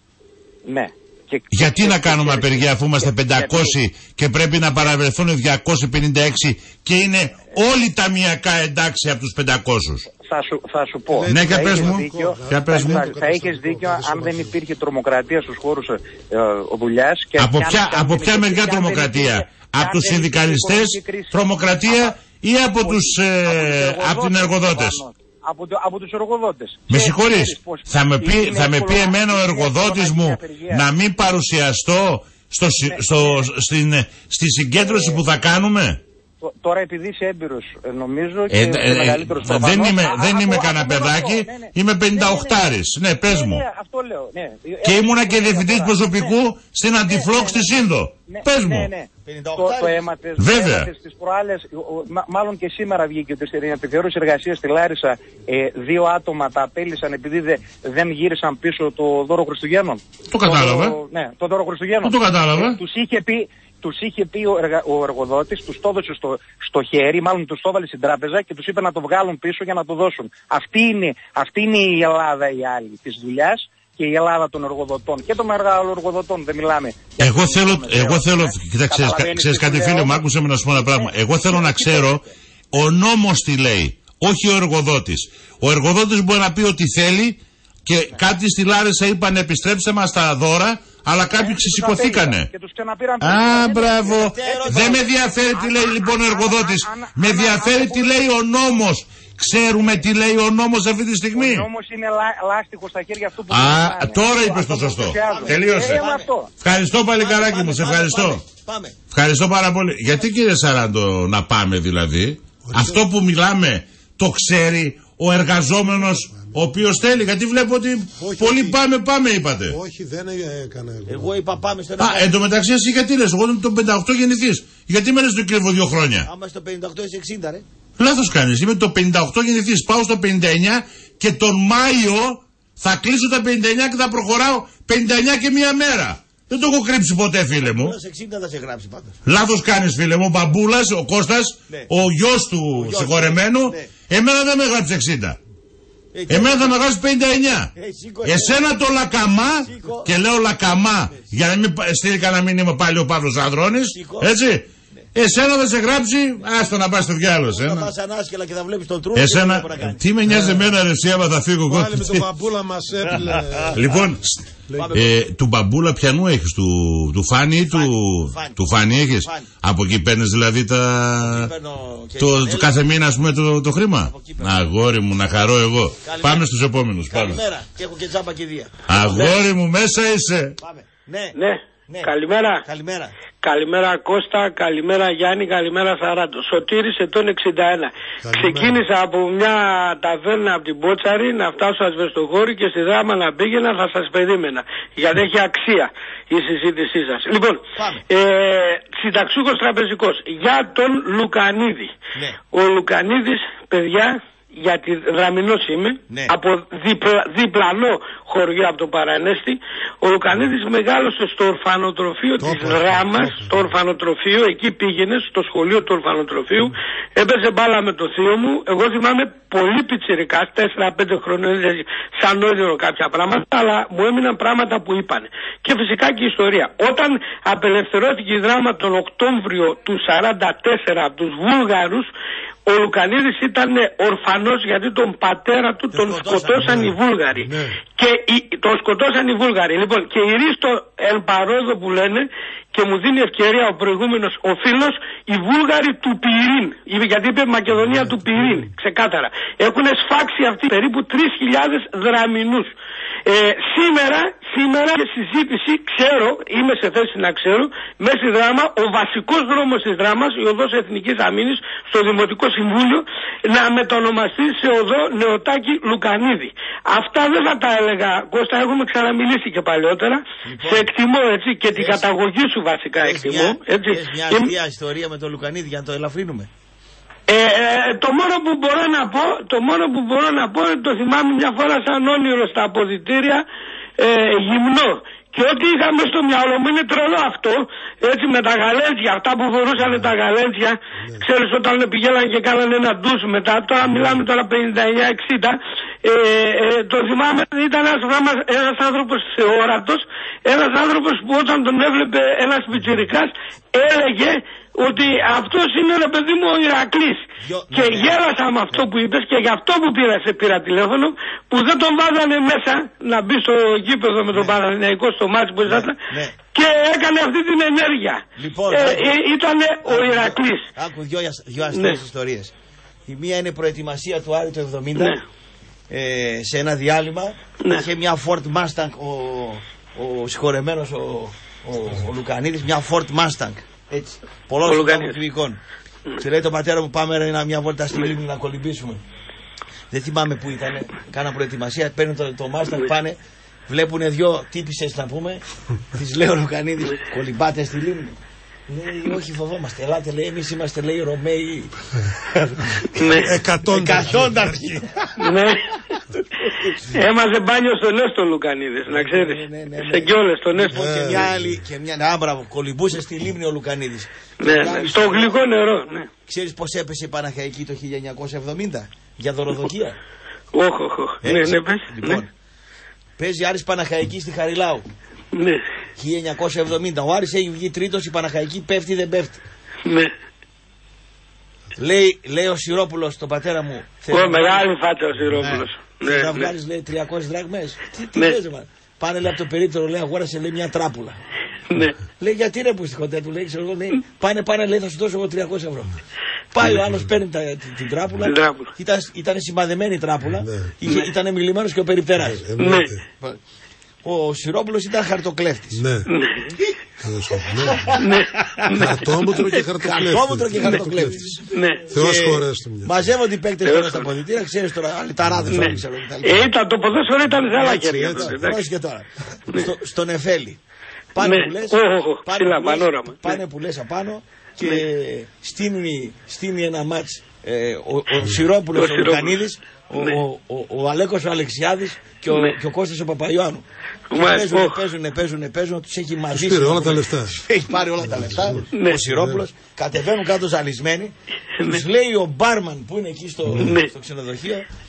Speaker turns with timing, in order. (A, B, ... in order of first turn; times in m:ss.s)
0:00.6-0:03.8 A
0:01.5-0:10.0 B
0:10.1-0:30.8 A
0:11.1-0:14.5 C
0:11.3-0:13.0 B
0:17.4-0:25.0 B
0:26.9-0:36.0 B
0:32.9-0:33.4 A
0:34.8-0:35.2 A
0:36.4-0:42.7 A
0:38.5-0:43.6 B
0:43.2-0:46.3 A
0:44.8-0:48.9 B
0:47.0-1:22.2 A
0:49.2-0:50.0 D
0:50.4-0:50.9 B
1:00.3-1:01.0 B
1:02.0-1:02.8 B
1:17.2-1:32.5 B
1:31.2-1:38.2 A
1:33.2-1:41.6 B
1:34.1-1:35.0 D
1:39.8-1:40.0 A
1:41.3-1:46.5 A
1:43.5-1:46.0 B
1:45.2-1:46.3 D
1:46.6-1:48.4 B
1:47.2-1:49.0 D
1:49.1-1:59.8 B
1:52.6-1:53.0 C
1:56.1-1:56.6 C
1:58.2-1:58.8 C
1:59.7-2:01.4 C
2:01.1-2:02.3 D
2:02.0-2:06.3 B
2:06.2-2:07.6 D
2:08.0-2:17.9 B
2:17.6-2:19.2 D
2:19.2-2:25.4 B
2:22.8-2:23.9 D
2:26.1-2:26.8 D
2:26.3-2:27.7 B
2:27.7-2:28.6 D
2:28.2-2:37.9 B
2:29.6-2:30.1 D
2:33.9-2:34.3 D
2:37.4-2:40.0 D
2:39.1-2:42.2 B
2:40.3-2:40.6 C
2:41.7-2:43.8 C
2:43.1-2:43.9 D
2:43.7-2:44.4 B
2:44.7-2:44.9 C
2:44.7-2:45.1 D
2:44.9-2:51.5 B
2:47.6-2:48.6 D
2:49.2-2:49.5 D
2:51.2-2:52.8 D
2:52.2-2:57.4 B
2:54.0-2:54.6 D
2:56.0-2:56.5 D
2:57.1-2:59.3 D
2:58.9-3:00.6 B
3:00.6-3:01.4 D
3:01.3-3:02.6 E
3:01.9-3:03.1 D
3:03.4-3:21.9 E
3:08.2-3:08.8 C
3:17.8-3:18.0 D
3:22.5-3:52.1 E
3:32.4-3:33.7 C
3:52.6-4:12.7 E
3:55.9-3:57.0 D
3:57.3-3:57.8 C
4:07.7-4:08.7 C
4:13.2-4:34.5 E
4:30.4-4:30.9 D
4:31.7-4:32.0 D
4:33.0-4:36.5 D
4:37.3-4:43.4 E
4:44.0-5:20.6 E
4:49.8-4:50.1 C
4:51.0-4:51.2 C
4:53.8-4:54.2 C
5:07.4-5:08.2 D
5:15.6-5:16.3 D
5:18.4-5:19.2 D
5:19.8-5:22.5 D
5:21.7-5:22.0 E
5:23.1-5:25.2 D
5:24.9-5:25.2 E
5:25.9-5:35.6 D
5:34.6-5:35.2 E
5:36.2-5:39.0 D
5:39.9-5:43.2 D
5:43.7-5:48.2 D
5:48.7-5:55.3 D
5:53.0-5:53.3 E
5:53.1-5:54.8 C
5:55.2-5:55.6 E
5:56.4-5:56.8 D
5:56.9-6:00.8 E
5:58.9-6:05.4 D
6:00.7-6:01.6 C
6:04.4-6:06.1 E
6:06.3-6:10.0 D
6:10.5-6:12.2 E
6:11.2-6:12.3 D
6:13.2-6:14.8 D
6:15.3-6:15.6 E
6:16.0-6:19.4 D
6:19.8-6:20.1 E
6:21.8-6:24.6 D
6:24.1-6:26.5 E
6:25.4-6:31.2 D
6:32.2-6:35.9 D
6:36.5-6:42.4 D
6:38.2-6:38.7 E
6:40.4-6:40.7 C
6:42.2-6:43.0 C
6:42.6-6:42.9 E
6:44.0-6:45.8 D
6:45.7-6:46.1 C
6:46.1-6:46.4 E
6:47.0-6:48.0 C
6:47.6-6:48.9 D
6:48.0-6:49.6 E
6:48.7-6:51.4 C
6:49.8-6:51.4 D
6:51.5-6:51.8 E
6:51.9-6:53.1 C
6:51.9-6:56.5 D
6:53.6-6:54.1 E
6:55.2-6:55.8 C
6:56.2-6:58.6 E
6:57.5-7:00.6 D
6:57.7-6:58.4 C
7:01.1-7:13.6 D
7:01.2-7:03.4 E
7:08.7-7:09.4 E
7:14.1-7:14.8 E
7:14.2-7:24.6 D
7:16.3-7:17.3 C
7:18.0-7:19.4 C
7:18.7-7:19.0 E
7:23.5-7:23.9 E